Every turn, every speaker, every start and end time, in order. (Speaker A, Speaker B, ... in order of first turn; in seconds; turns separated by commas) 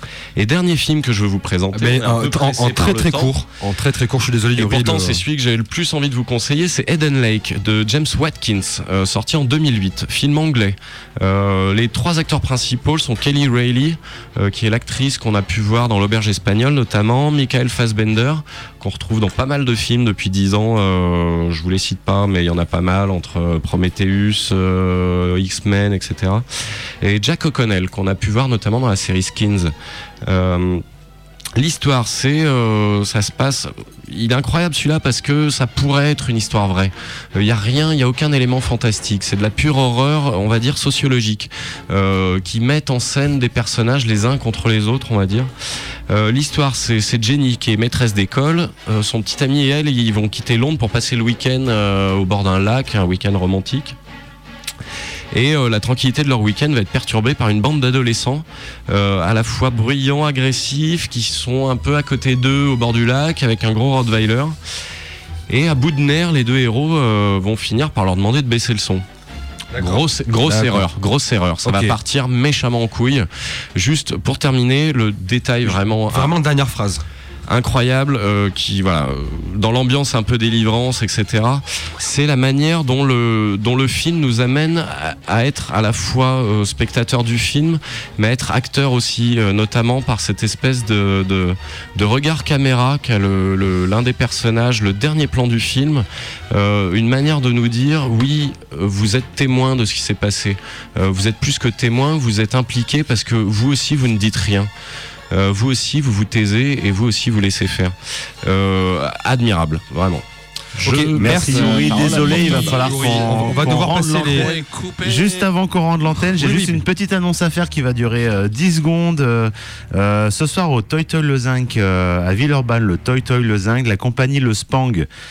Speaker A: 0.3-3.3, Speaker B: 1.7-5.2, Speaker A: 4.5-26.4, Speaker A: 27.0-29.7, Speaker A: 30.2-30.8, Speaker A: 31.6-45.5, Speaker A: 46.1-54.0, Speaker A: 55.3-64.5, Speaker A: 65.5-69.0, Speaker B: 69.7-70.9, Speaker A: 69.8-76.3, Speaker B: 71.6-72.0, Speaker B: 75.6-77.0, Speaker A: 77.5-104.7, Speaker A: 105.3-110.2, Speaker A: 110.8-112.8, Speaker B: 110.8-114.7, Speaker C: 111.2-125.1, Speaker B: 116.4-116.8